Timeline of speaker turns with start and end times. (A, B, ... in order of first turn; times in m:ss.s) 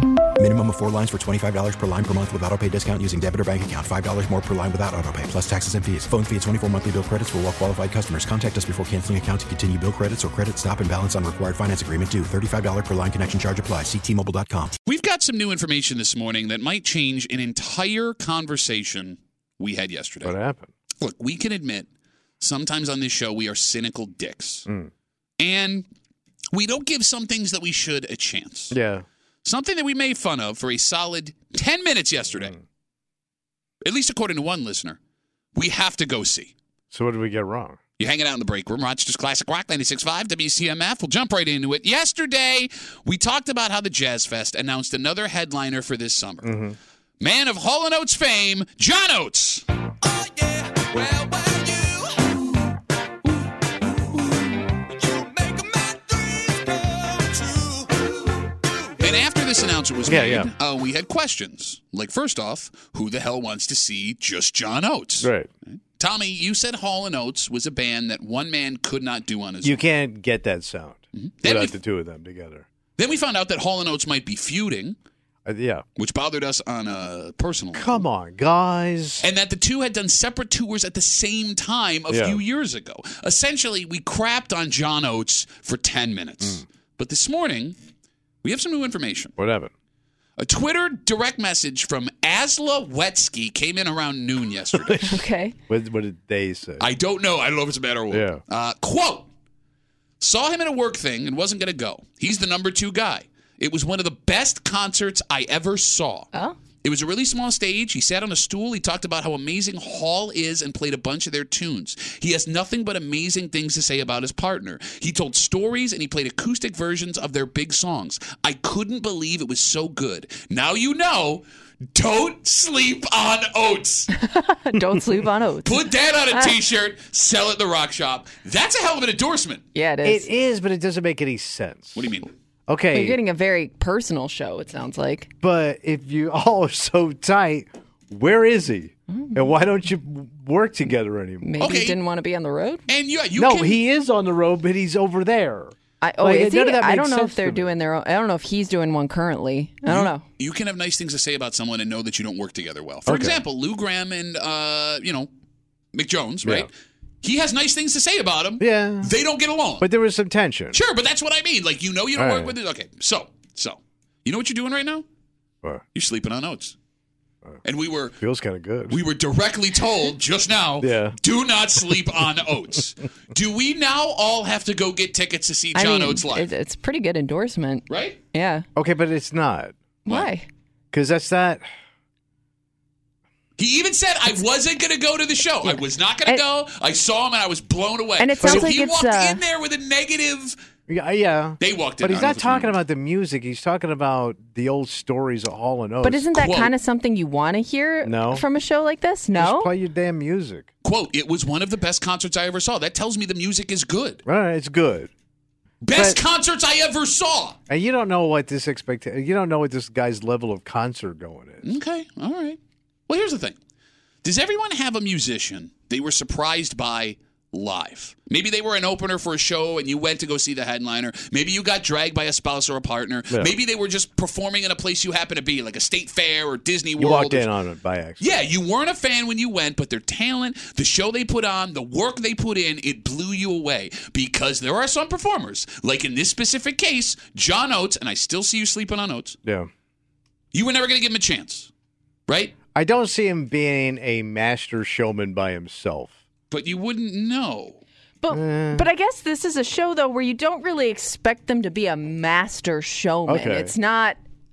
0:00.4-0:14.8 A
0:14.8-0:20.4 B
0:20.2-0:20.7 C
0:21.0-0:21.9 B
0:22.4-0:24.7 B
0:25.4-0:25.9 B
0:26.5-0:28.8 B
0:28.7-0:29.1 C
0:29.4-0:32.5 B
0:33.8-0:35.0 B
0:35.6-0:36.5 B
0:36.9-0:37.8 C
0:38.0-0:46.5 B
0:46.4-0:46.8 C
0:47.2-0:52.2 B
0:55.5-0:56.6 B
0:59.0-1:09.8 B
1:00.0-1:00.5 C
1:05.2-1:05.5 C
1:09.6-1:12.7 C
1:11.1-1:11.8 B
1:13.0-1:15.0 B
1:15.5-1:15.8 C
1:16.0-1:18.0 B
1:17.8-1:19.3 C
1:19.2-1:27.8 B
1:22.1-1:22.4 C
1:28.4-1:29.4 B
1:29.4-1:29.7 C
1:30.4-1:35.0 B
1:34.7-1:35.2 C
1:35.0-1:35.6 D
1:35.7-1:36.8 C
1:36.8-1:39.3 B
1:38.1-1:38.4 C
1:40.2-1:46.3 B
1:46.8-2:04.1 B
2:04.2-2:05.8 D
2:05.6-2:09.6 B
2:09.8-2:10.3 D
2:10.0-2:12.1 C
2:12.0-2:12.3 B
2:12.7-2:13.2 C
2:12.9-2:15.3 D
2:15.4-2:21.6 C
2:19.1-2:19.5 D
2:21.4-2:22.8 D
2:21.6-2:22.0 B
2:22.9-2:23.8 B
2:23.4-2:27.7 C
2:26.0-2:30.2 D
2:29.9-2:35.3 B
2:33.1-2:33.4 C
2:35.9-2:36.7 B
2:36.4-2:36.7 C
2:37.2-2:39.9 B
2:38.6-2:39.1 C
2:39.8-2:40.8 C
2:40.7-2:45.0 B
2:42.2-2:42.6 C
2:45.9-2:46.8 B
2:47.6-2:48.2 B
2:48.2-2:49.0 C
2:48.9-2:56.5 B
2:50.8-2:51.2 C
2:55.8-2:58.7 D
2:57.9-2:58.2 B
2:58.8-2:59.8 C
3:00.0-3:00.5 D
3:00.9-3:01.7 C
3:03.6-3:10.6 B
3:05.6-3:06.4 D
3:08.2-3:09.4 D
3:08.4-3:08.7 C
3:10.9-3:16.3 C
3:11.6-3:12.8 B
3:16.0-3:19.7 D
3:16.3-3:16.7 B
3:18.0-3:18.4 C
3:19.4-3:20.7 C
3:20.8-3:24.2 B
3:24.3-3:25.1 C
3:25.8-3:27.6 B
3:25.9-3:26.2 C
3:27.7-3:31.6 C
3:31.6-3:32.6 B
3:33.1-3:33.6 B
3:34.2-3:47.5 B
3:47.0-3:48.2 C
3:48.2-3:59.4 B
3:59.4-3:59.7 C
4:00.5-4:01.7 B
4:02.3-4:02.5 B
4:02.8-4:06.2 C
4:06.5-4:07.8 B
4:08.2-4:14.2 D
4:08.3-4:08.9 C
4:13.3-4:13.7 C